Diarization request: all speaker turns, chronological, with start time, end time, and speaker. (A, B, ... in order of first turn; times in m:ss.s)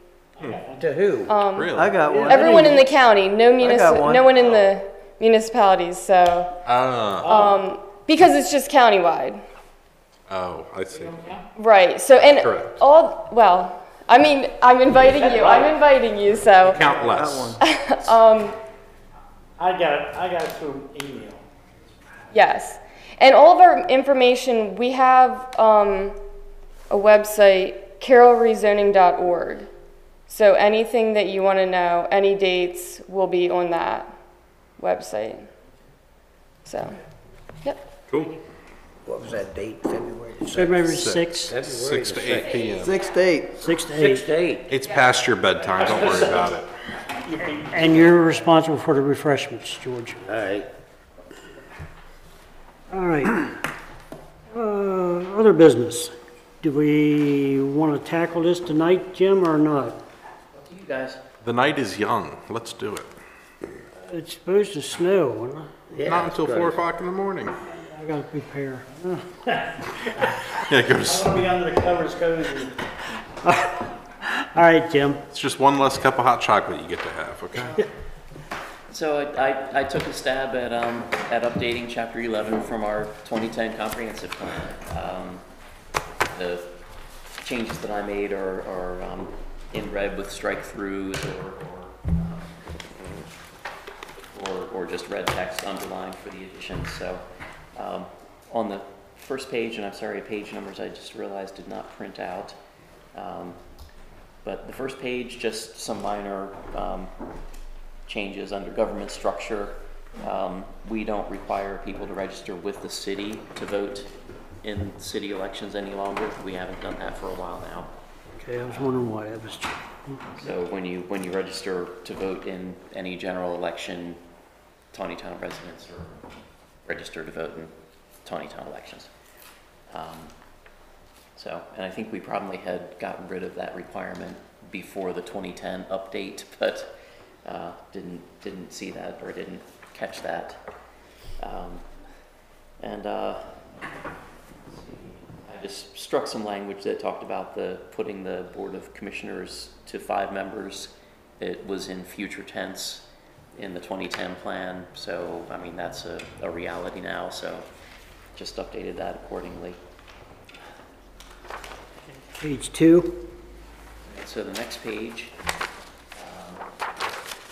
0:00.4-0:00.9 A
0:00.8-0:01.3 B
0:01.3-0:06.5 C
0:01.5-0:02.1 D
0:01.7-0:03.0 E
0:02.0-0:02.7 A
0:03.6-0:04.3 E
0:04.4-0:04.7 A
0:06.6-0:07.4 D
0:07.2-0:07.6 A
0:07.2-0:09.4 C
0:10.3-0:11.2 D
0:10.9-0:11.4 A
0:11.6-0:16.9 C
0:12.2-0:12.8 D
0:15.0-0:15.8 A
0:16.6-0:17.6 D
0:17.2-0:17.6 E
0:17.6-0:18.6 C
0:19.6-0:21.4 A
0:22.3-0:26.2 C
0:26.9-0:29.7 C
0:30.3-0:34.1 C
0:34.8-0:35.4 C
0:36.6-0:36.9 C
0:38.1-0:38.3 D
0:39.0-0:40.9 B
0:40.5-0:41.6 F
0:40.9-0:43.1 D
0:41.5-0:42.6 B
0:42.8-0:43.5 E
0:43.5-0:44.2 F
0:43.9-0:44.7 B
0:44.7-0:46.7 D
0:45.7-0:46.5 A
0:47.1-0:48.3 A
0:47.7-0:50.2 F
0:50.2-0:50.7 B
0:52.9-0:53.5 F
0:54.5-1:00.0 F
1:00.5-1:01.2 G
1:01.4-1:03.1 D
1:04.0-1:05.9 F
1:05.9-1:06.8 B
1:06.0-1:07.5 D
1:07.7-1:10.4 F
1:10.6-1:11.4 D
1:10.9-1:12.8 A
1:13.4-1:15.2 F
1:15.3-1:17.8 D
1:18.9-1:25.4 G
1:26.3-1:26.7 G
1:27.4-1:32.5 G
1:34.3-1:37.2 G
1:37.8-1:42.6 G
1:43.1-1:43.6 G
1:44.4-1:47.1 G
1:48.1-1:54.1 G
1:54.6-1:57.9 G
1:58.4-2:00.2 F
2:00.3-2:04.2 G
2:04.9-2:06.2 G
2:06.8-2:07.7 G
2:08.2-2:09.1 G
2:09.9-2:10.3 G
2:11.4-2:16.9 G
2:17.4-2:20.6 G
2:21.4-2:21.8 G
2:22.8-2:23.4 G
2:24.7-2:37.7 G
2:38.3-2:39.8 G
2:42.2-2:43.2 F
2:44.0-2:45.3 G
2:46.2-2:46.6 G